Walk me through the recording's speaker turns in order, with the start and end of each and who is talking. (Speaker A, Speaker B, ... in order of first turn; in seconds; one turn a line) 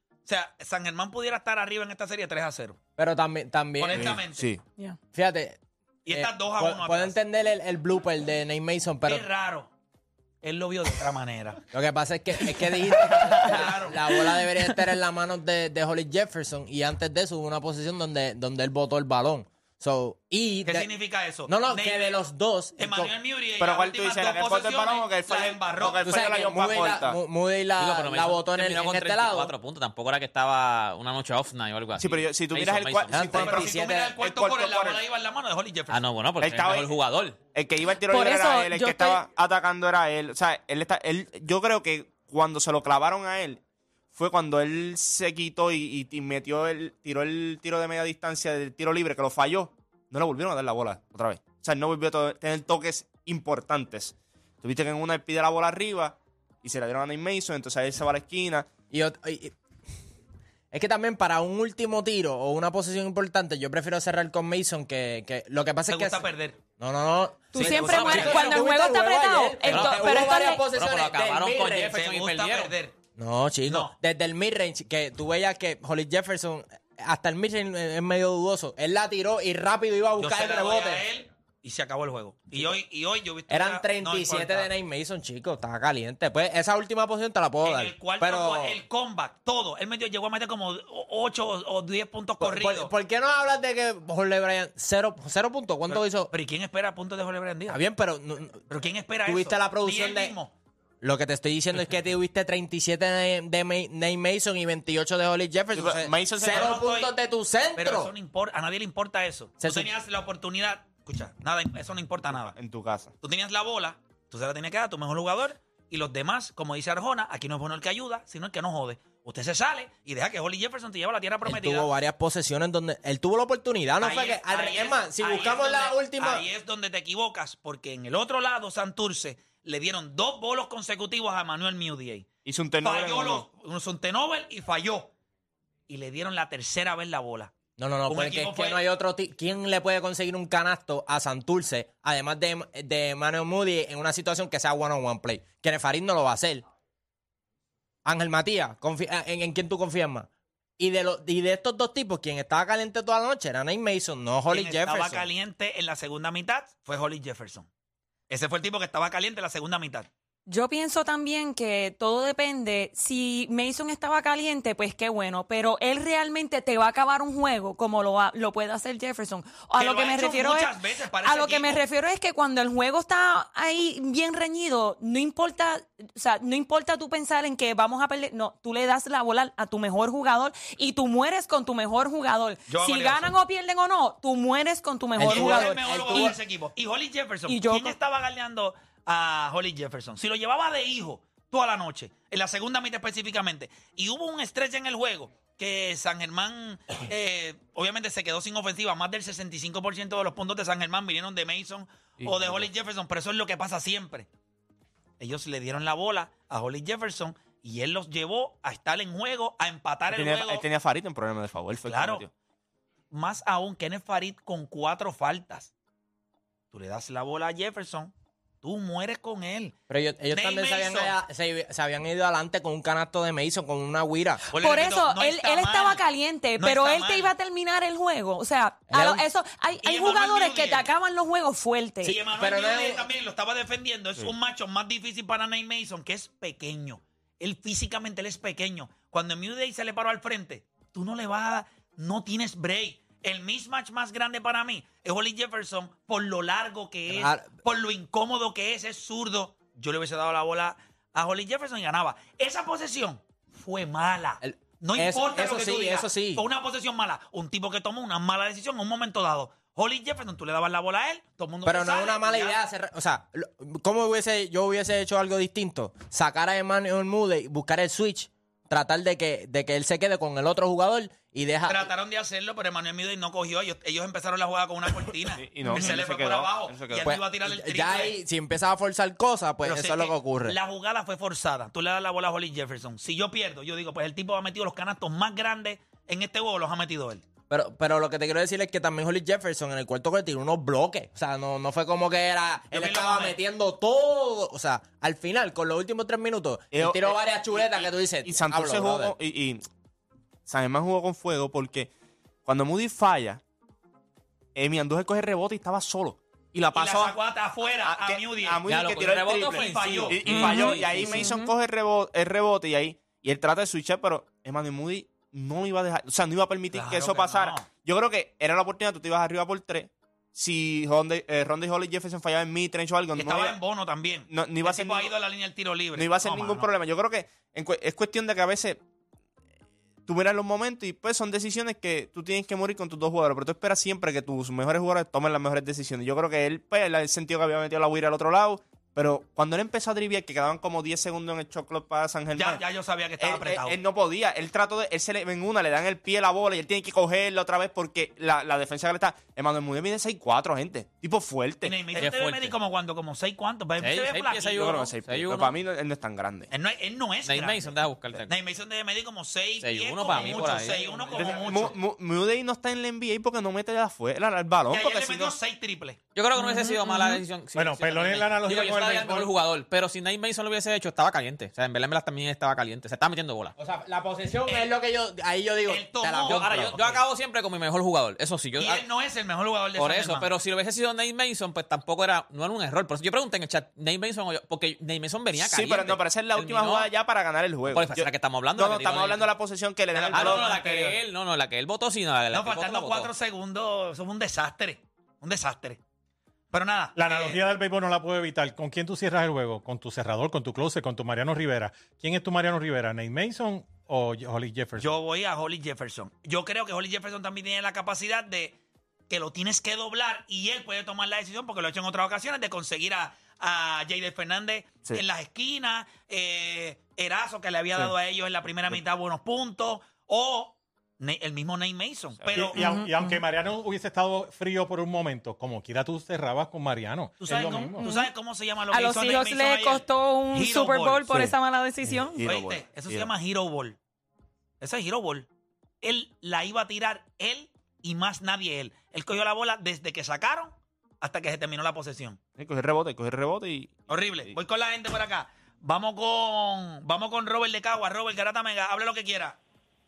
Speaker A: 0.3-2.8
Speaker B: 3.0-4.2
Speaker A: 3.8-4.5
Speaker C: 4.0-4.6
Speaker B: 5.1-9.3
Speaker A: 6.1-7.2
Speaker A: 9.1-9.7
Speaker A: 10.4-11.6
Speaker B: 11.7-20.9
Speaker A: 13.3-14.2
Speaker A: 20.6-22.2
Speaker B: 21.5-23.1
Speaker A: 22.8-26.2
Speaker C: 23.6-27.2
Speaker B: 26.0-29.5
Speaker D: 27.8-33.4
Speaker C: 32.0-35.0
Speaker B: 33.1-34.2
Speaker A: 33.3-36.0
Speaker D: 35.9-37.4
Speaker C: 36.4-37.0
Speaker C: 37.5-43.6
Speaker E: 38.0-39.2
Speaker C: 44.1-58.7
Speaker B: 58.9-59.5
Speaker B: 60.7-72.0
Speaker A: 65.9-66.6
Speaker E: 67.5-70.7
Speaker A: 67.6-68.5
Speaker D: 69.7-72.8
Speaker A: 71.8-72.9
Speaker B: 73.2-81.1
Speaker A: 73.7-74.0
Speaker A: 80.2-84.7
Speaker B: 83.5-88.8
Speaker A: 87.6-92.9
Speaker B: 92.4-96.3
Speaker A: 95.9-97.8
Speaker B: 97.7-98.6
Speaker A: 98.7-100.5
Speaker B: 99.3-100.4
Speaker B: 101.0-108.1
Speaker C: 105.8-106.8
Speaker A: 106.4-107.1
Speaker A: 107.8-112.5
Speaker B: 109.6-109.9
Speaker C: 112.3-113.1
Speaker A: 113.2-121.9
Speaker B: 121.5-126.5
Speaker A: 124.0-132.3
Speaker C: 132.4-133.4
Speaker A: 132.8-135.1
Speaker A: 135.9-137.5
Speaker B: 137.8-146.6
Speaker A: 138.1-138.8
Speaker B: 148.1-155.3
Speaker A: 154.5-157.7
Speaker A: 158.3-160.1
Speaker E: 160.5-186.3
Speaker A: 169.8-171.8
Speaker A: 182.7-183.3
Speaker B: 185.2-186.4
Speaker A: 185.2-204.3
Speaker E: 187.5-188.0
Speaker A: 205.2-210.6
Speaker C: 210.1-212.3
Speaker A: 211.8-212.2
Speaker A: 213.1-215.7
Speaker A: 216.7-219.8
Speaker B: 219.9-224.4
Speaker A: 220.3-221.2
Speaker A: 224.5-226.1
Speaker E: 224.5-232.2
Speaker A: 226.6-227.3
Speaker B: 228.9-229.2
Speaker A: 229.8-230.9
Speaker B: 232.0-233.1
Speaker A: 232.0-262.6
Speaker B: 247.1-247.5
Speaker B: 254.4-256.4
Speaker B: 261.6-271.9
Speaker A: 271.7-278.2
Speaker C: 275.4-277.1
Speaker B: 277.0-280.6
Speaker A: 279.6-287.2
Speaker B: 287.5-299.1
Speaker A: 292.7-293.4
Speaker C: 296.7-299.7
Speaker C: 300.5-301.9
Speaker C: 302.4-303.4
Speaker C: 304.6-307.2
Speaker A: 306.7-308.6
Speaker C: 307.9-323.6
Speaker D: 308.7-311.3
Speaker A: 309.5-310.3
Speaker E: 310.3-311.5
Speaker A: 316.7-317.7
Speaker A: 323.1-326.7
Speaker C: 324.3-325.1
Speaker C: 325.9-328.8
Speaker C: 330.1-342.6
Speaker A: 342.3-343.8
Speaker C: 343.2-351.9
Speaker A: 351.6-354.6
Speaker D: 351.9-352.6
Speaker D: 353.8-355.5
Speaker C: 354.4-356.5
Speaker A: 356.5-357.7
Speaker D: 357.2-358.3
Speaker A: 358.3-361.8
Speaker D: 359.6-361.2
Speaker C: 360.2-360.5
Speaker C: 361.1-365.3
Speaker A: 364.7-366.0
Speaker D: 366.1-373.5
Speaker E: 366.4-367.2
Speaker F: 367.5-369.4
Speaker B: 373.6-377.0
Speaker A: 375.7-377.0
Speaker D: 376.2-378.8
Speaker A: 378.6-380.3
Speaker D: 379.8-386.9
Speaker C: 385.4-390.5
Speaker D: 387.7-389.3
Speaker A: 389.9-391.0
Speaker D: 390.1-393.1
Speaker A: 392.3-395.8
Speaker A: 396.5-397.4
Speaker F: 397.0-404.9
Speaker A: 404.8-408.6
Speaker A: 409.1-422.6
Speaker F: 422.3-427.9
Speaker E: 422.5-423.2
Speaker A: 427.2-431.3
Speaker E: 427.4-428.1
Speaker E: 428.7-432.3
Speaker C: 431.8-433.1
Speaker A: 432.2-433.8
Speaker A: 434.6-435.3
Speaker A: 435.8-442.2
Speaker C: 442.4-444.4
Speaker A: 443.9-449.4